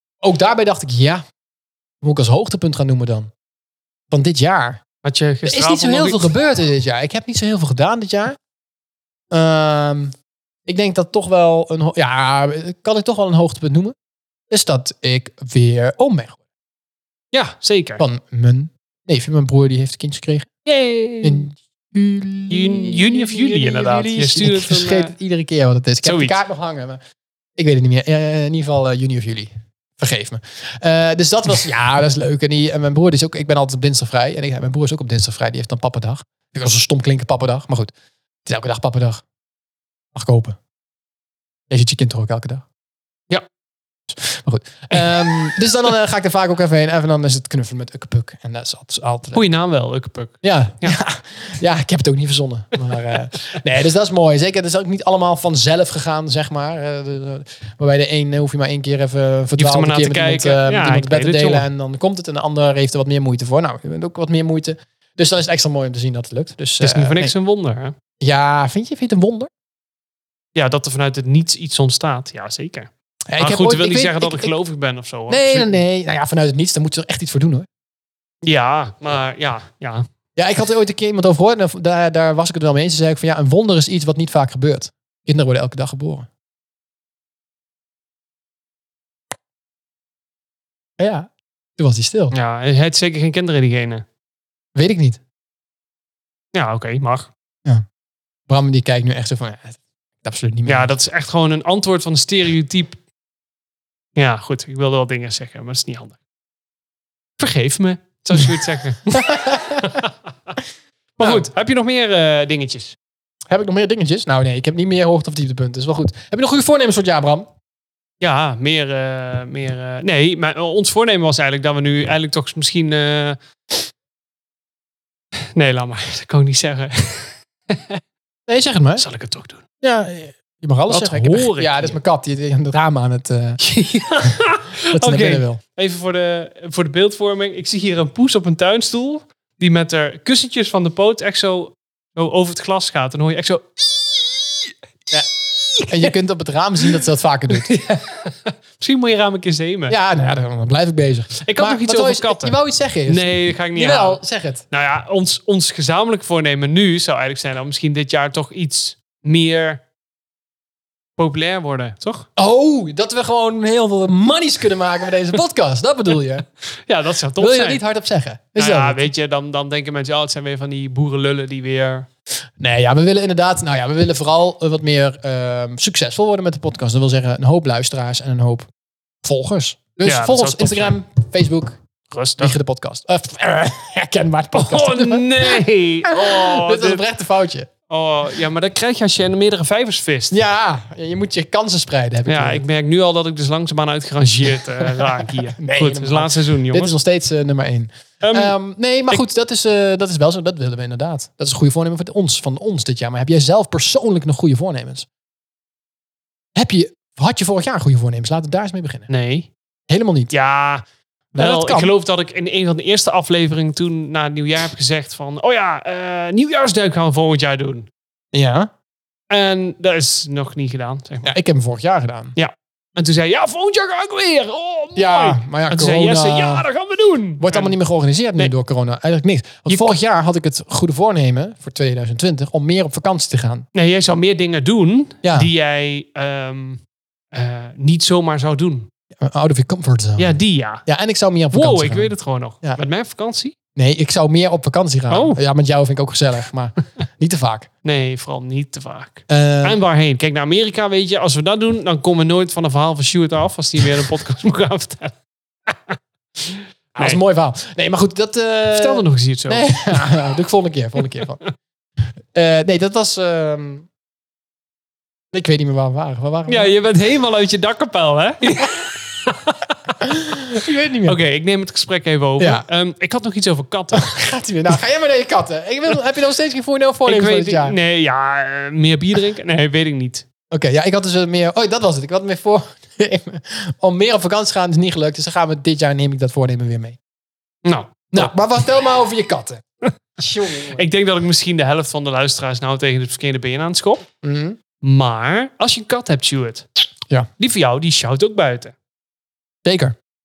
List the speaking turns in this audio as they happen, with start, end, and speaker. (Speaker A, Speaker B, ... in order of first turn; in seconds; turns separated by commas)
Speaker A: 0.2-1.2, Speaker A: 2.0-3.3, Speaker A: 4.1-4.8, Speaker B: 5.0-6.3, Speaker A: 5.5-8.4, Speaker A: 9.3-10.1, Speaker A: 10.7-13.9, Speaker A: 14.5-16.4, Speaker B: 17.3-18.0, Speaker A: 18.0-20.5, Speaker B: 20.6-21.5, Speaker A: 21.2-27.0, Speaker B: 22.5-25.1, Speaker B: 26.0-26.4, Speaker A: 27.6-37.9, Speaker A: 38.5-39.2, Speaker A: 40.1-40.6, Speaker A: 41.7-42.6, Speaker A: 44.1-49.4, Speaker B: 44.9-45.5, Speaker B: 49.3-51.0, Speaker A: 50.4-67.3, Speaker B: 59.6-61.7, Speaker B: 66.8-68.0, Speaker A: 68.2-69.5, Speaker B: 70.5-75.8, Speaker A: 73.3-74.5, Speaker A: 75.3-77.7, Speaker B: 78.4-80.1, Speaker A: 80.4-86.3, Speaker A: 91.0-92.3, Speaker B: 92.3-94.0, Speaker A: 94.8-95.2, Speaker B: 96.5-97.3, Speaker A: 98.5-100.9, Speaker B: 100.7-103.0, Speaker B: 104.2-106.2, Speaker B: 107.4-110.5, Speaker A: 109.1-110.0, Speaker B: 111.2-113.0, Speaker A: 111.2-111.5, Speaker A: 113.5-117.5, Speaker B: 118.2-123.4, Speaker B: 125.5-128.0, Speaker A: 128.5-129.1, Speaker B: 129.0-129.6, Speaker A: 129.8-133.6, Speaker B: 130.9-132.0, Speaker B: 133.6-144.7, Speaker A: 134.9-135.6, Speaker B: 145.6-146.1, Speaker A: 145.9-147.7, Speaker B: 147.5-150.0, Speaker A: 149.9-154.6, Speaker B: 151.4-152.6, Speaker B: 153.1-159.8, Speaker B: 161.2-162.3, Speaker A: 162.4-166.5, Speaker B: 166.9-167.8, Speaker A: 167.4-169.1, Speaker B: 168.6-172.1, Speaker A: 172.6-178.7, Speaker A: 179.2-181.8, Speaker B: 180.0-180.9, Speaker B: 182.1-182.6, Speaker A: 182.4-187.7, Speaker B: 184.5-187.0, Speaker B: 187.9-190.4, Speaker A: 190.3-192.6, Speaker B: 192.3-196.9, Speaker A: 194.8-205.1, Speaker B: 198.2-198.6, Speaker A: 206.6-209.1, Speaker B: 209.1-209.5, Speaker A: 209.9-210.3, Speaker B: 210.3-210.8, Speaker A: 211.3-211.9, Speaker B: 211.4-217.9, Speaker A: 218.3-218.7, Speaker B: 219.3-221.3, Speaker A: 221.2-222.4, Speaker B: 222.4-227.8, Speaker A: 224.9-226.7, Speaker A: 227.4-233.7, Speaker B: 229.7-230.0, Speaker B: 233.7-236.8, Speaker A: 235.2-235.5, Speaker B: 237.3-238.9, Speaker A: 239.2-242.8, Speaker B: 240.2-240.9, Speaker B: 241.5-243.6, Speaker A: 243.8-247.7, Speaker B: 245.1-245.4, Speaker B: 247.8-255.2, Speaker A: 249.3-249.8, Speaker B: 255.7-257.2, Speaker A: 257.0-261.4, Speaker B: 258.7-259.7, Speaker A: 262.3-263.9, Speaker A: 265.3-266.7, Speaker B: 266.5-269.8, Speaker A: 270.0-271.2, Speaker B: 271.1-274.1, Speaker A: 272.4-272.6, Speaker A: 273.9-277.8, Speaker B: 277.1-280.2, Speaker A: 280.5-287.0, Speaker B: 287.6-288.3, Speaker A: 288.1-289.6, Speaker A: 290.2-290.9, Speaker B: 290.6-294.1, Speaker A: 294.2-294.6, Speaker B: 294.8-296.7, Speaker B: 297.4-298.8, Speaker A: 299.6-300.0